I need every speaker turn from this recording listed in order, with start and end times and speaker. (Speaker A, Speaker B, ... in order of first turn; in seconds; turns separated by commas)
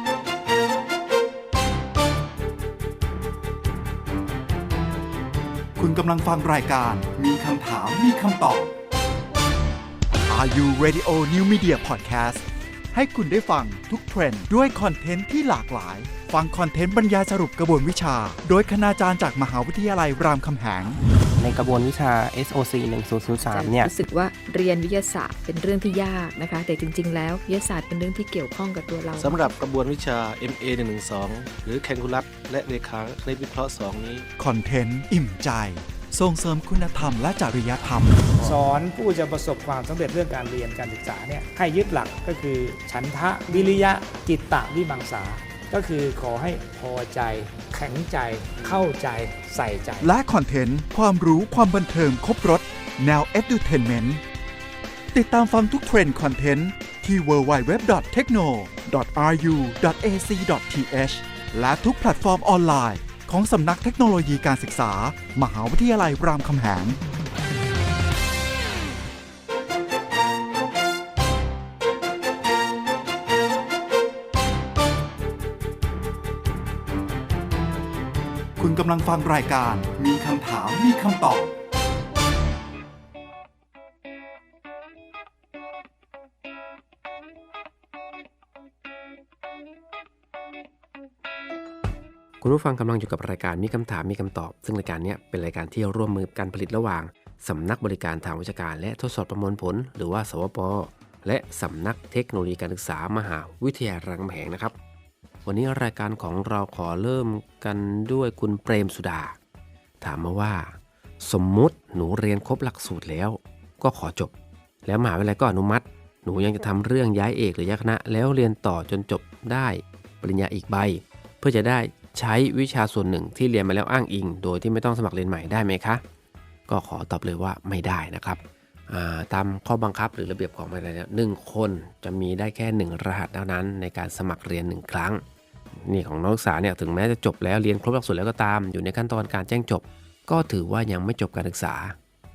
Speaker A: 5.8-8.7, Speaker A: 10.3-21.0, Speaker B: 21.4-23.9, Speaker C: 23.4-29.4, Speaker D: 29.2-34.3, Speaker A: 34.4-38.3, Speaker E: 38.3-50.1, Speaker A: 50.0-54.2, Speaker A: 55.1-67.0, Speaker A: 78.6-81.5, Speaker F: 92.4-104.7, Speaker F: 105.4-109.3, Speaker F: 110.0-114.3, Speaker F: 114.8-126.0, Speaker F: 126.7-135.2, Speaker F: 135.8-141.9